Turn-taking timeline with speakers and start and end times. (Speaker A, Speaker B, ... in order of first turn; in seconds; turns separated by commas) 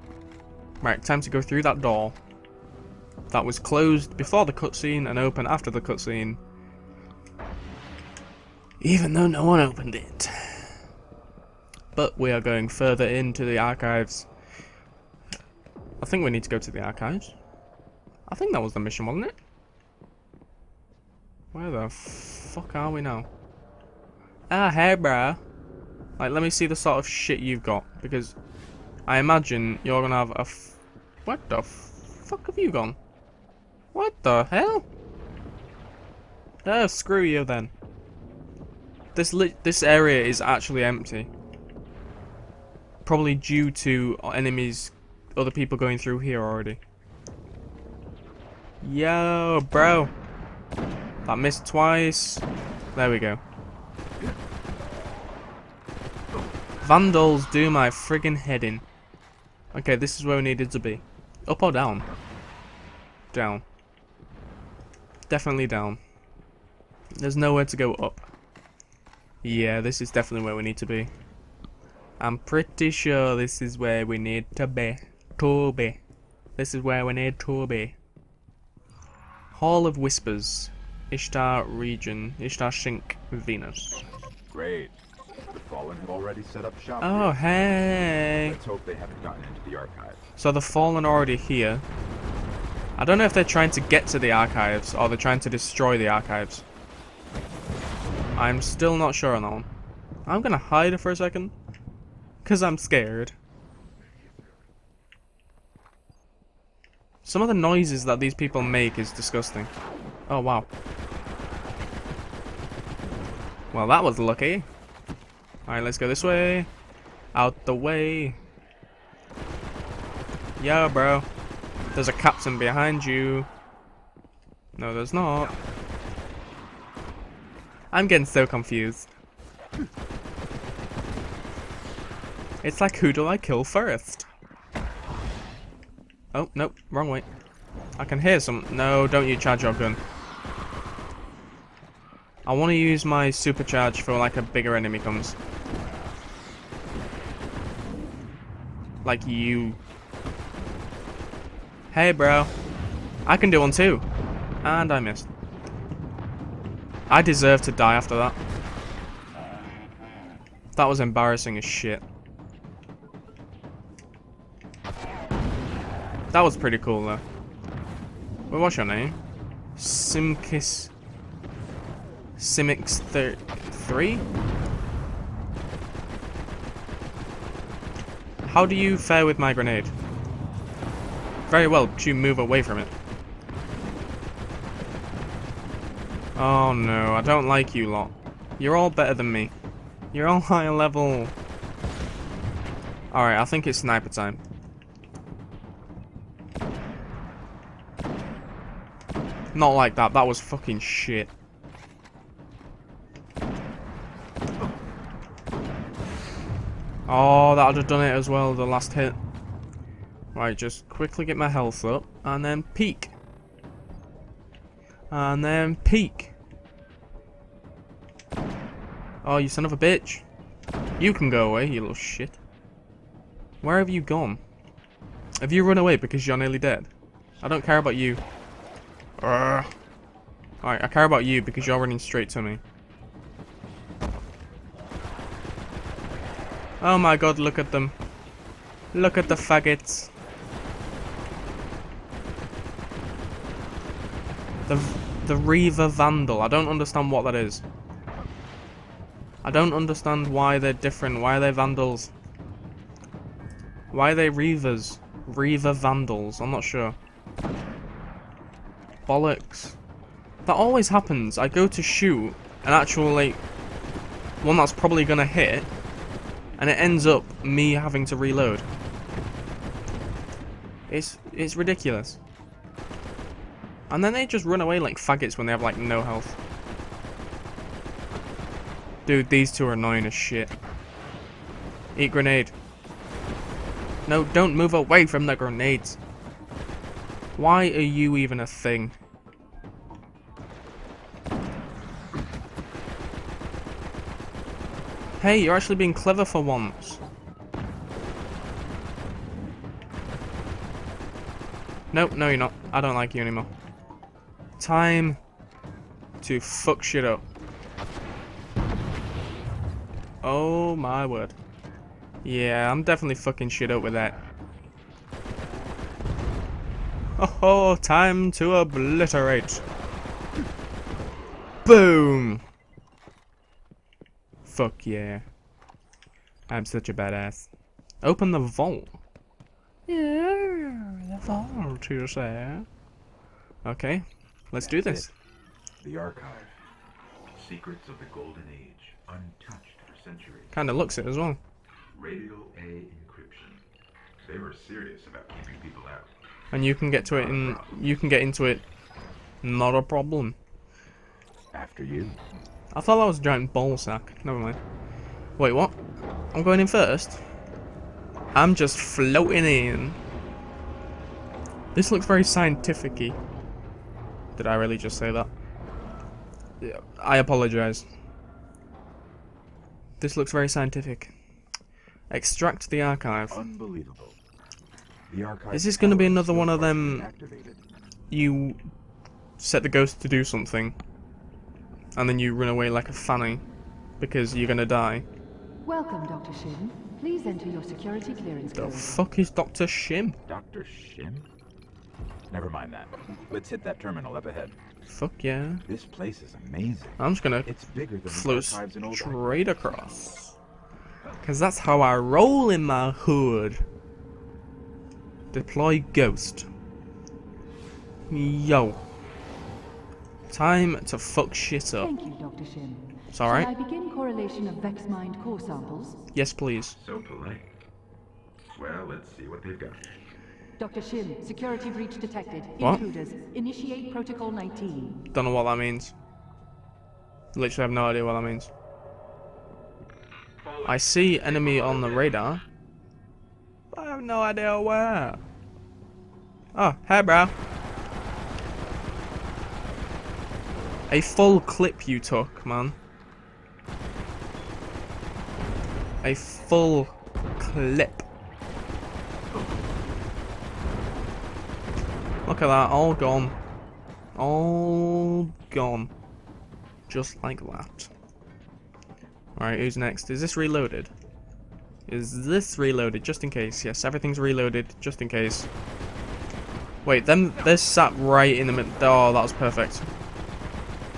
Speaker A: 0.8-2.2, Speaker A: 3.3-6.4, Speaker A: 8.8-10.8, Speaker A: 11.9-14.3, Speaker A: 16.0-17.4, Speaker A: 18.3-19.4, Speaker A: 21.5-23.3, Speaker A: 24.5-25.4, Speaker A: 26.2-28.4, Speaker A: 29.1-33.0, Speaker A: 33.9-34.9, Speaker A: 36.6-37.7, Speaker A: 39.1-41.3, Speaker A: 43.0-46.8, Speaker A: 48.8-50.1, Speaker A: 51.2-53.4, Speaker A: 56.8-58.8, Speaker A: 59.7-62.0, Speaker A: 63.3-63.6, Speaker A: 65.3-66.0, Speaker A: 67.2-68.3, Speaker A: 69.4-71.1, Speaker A: 72.2-76.0, Speaker A: 76.6-78.0, Speaker A: 79.5-84.0, Speaker B: 84.5-85.0, Speaker B: 85.5-87.5, Speaker A: 87.0-88.6, Speaker B: 88.4-90.2, Speaker A: 90.4-91.8, Speaker A: 93.0-96.7, Speaker A: 98.4-99.7, Speaker A: 100.3-101.5, Speaker A: 102.4-103.3, Speaker A: 107.2-109.7, Speaker A: 110.3-110.7, Speaker A: 113.7-114.7, Speaker A: 115.7-116.7, Speaker A: 117.3-118.4, Speaker A: 120.6-121.3, Speaker A: 121.9-123.5, Speaker A: 124.8-125.5, Speaker A: 127.9-129.1, Speaker A: 132.6-134.3, Speaker A: 136.3-137.3, Speaker A: 138.0-140.0, Speaker A: 142.5-145.4, Speaker A: 149.0-149.8, Speaker A: 151.9-152.5, Speaker A: 153.3-154.1, Speaker A: 154.6-155.3, Speaker A: 157.1-158.4, Speaker A: 160.7-162.0, Speaker A: 166.3-167.2, Speaker A: 168.5-169.2, Speaker A: 169.8-170.9, Speaker A: 172.4-174.2, Speaker A: 178.4-179.9, Speaker A: 181.5-182.9, Speaker A: 186.4-189.5, Speaker A: 190.1-191.3, Speaker A: 193.1-194.4, Speaker A: 199.5-201.3, Speaker A: 207.1-209.2, Speaker A: 210.3-213.1, Speaker A: 215.1-216.3, Speaker A: 219.2-220.2, Speaker A: 221.0-222.4, Speaker A: 223.6-224.4, Speaker A: 225.4-226.9, Speaker A: 227.4-228.2, Speaker A: 229.2-229.7, Speaker A: 230.6-232.6, Speaker A: 236.8-237.9, Speaker A: 238.9-240.1, Speaker A: 244.7-247.6, Speaker A: 249.4-252.1, Speaker A: 253.9-257.0, Speaker A: 259.1-259.8, Speaker A: 260.4-263.4, Speaker A: 264.4-265.7, Speaker A: 266.6-268.7, Speaker A: 270.9-272.2, Speaker A: 273.9-276.4, Speaker A: 279.1-280.5, Speaker A: 281.9-282.5, Speaker A: 284.1-286.0, Speaker A: 287.4-289.0, Speaker A: 295.2-297.0, Speaker A: 301.9-303.5, Speaker A: 304.6-305.2, Speaker A: 306.2-307.2, Speaker A: 310.2-311.4, Speaker A: 312.2-314.2, Speaker A: 317.2-319.6, Speaker A: 321.6-322.4, Speaker A: 324.4-325.2, Speaker A: 326.5-327.5, Speaker A: 328.0-329.0, Speaker A: 329.9-332.7, Speaker A: 333.6-335.1, Speaker B: 334.6-335.1, Speaker B: 335.8-336.5, Speaker B: 337.3-340.6, Speaker A: 340.5-341.4, Speaker B: 341.9-343.6, Speaker B: 344.2-346.1, Speaker A: 346.5-348.6, Speaker B: 347.1-347.8, Speaker A: 349.4-350.4, Speaker B: 351.5-352.2, Speaker A: 352.7-354.6, Speaker A: 355.4-355.8, Speaker A: 356.3-357.2, Speaker A: 358.3-360.0, Speaker A: 361.7-363.2, Speaker A: 364.4-365.3, Speaker A: 366.6-367.9, Speaker A: 370.0-371.1, Speaker A: 372.1-373.5, Speaker B: 373.3-374.2, Speaker B: 375.1-377.6, Speaker A: 375.5-377.1, Speaker A: 378.1-378.6, Speaker A: 379.4-380.8, Speaker A: 381.9-383.4, Speaker A: 384.0-385.1, Speaker C: 385.6-389.0, Speaker A: 388.5-390.2, Speaker B: 390.3-391.3, Speaker B: 392.3-394.6, Speaker A: 394.9-395.6, Speaker B: 395.7-399.5, Speaker A: 397.0-397.5, Speaker A: 398.1-400.4, Speaker A: 401.2-403.6, Speaker A: 405.3-406.5, Speaker A: 408.1-408.8, Speaker A: 410.3-411.9, Speaker C: 411.8-416.0, Speaker A: 413.1-413.5, Speaker A: 416.1-416.8, Speaker B: 416.8-417.5, Speaker B: 418.5-419.9, Speaker C: 420.6-425.0, Speaker A: 425.1-425.9, Speaker A: 427.3-428.5, Speaker A: 430.6-432.4, Speaker A: 433.7-435.2, Speaker A: 436.6-437.3, Speaker A: 440.9-442.8, Speaker A: 446.0-448.1, Speaker A: 452.3-453.4, Speaker A: 454.2-455.9, Speaker A: 456.9-457.9, Speaker A: 459.4-460.9, Speaker A: 461.9-465.5, Speaker A: 466.9-469.9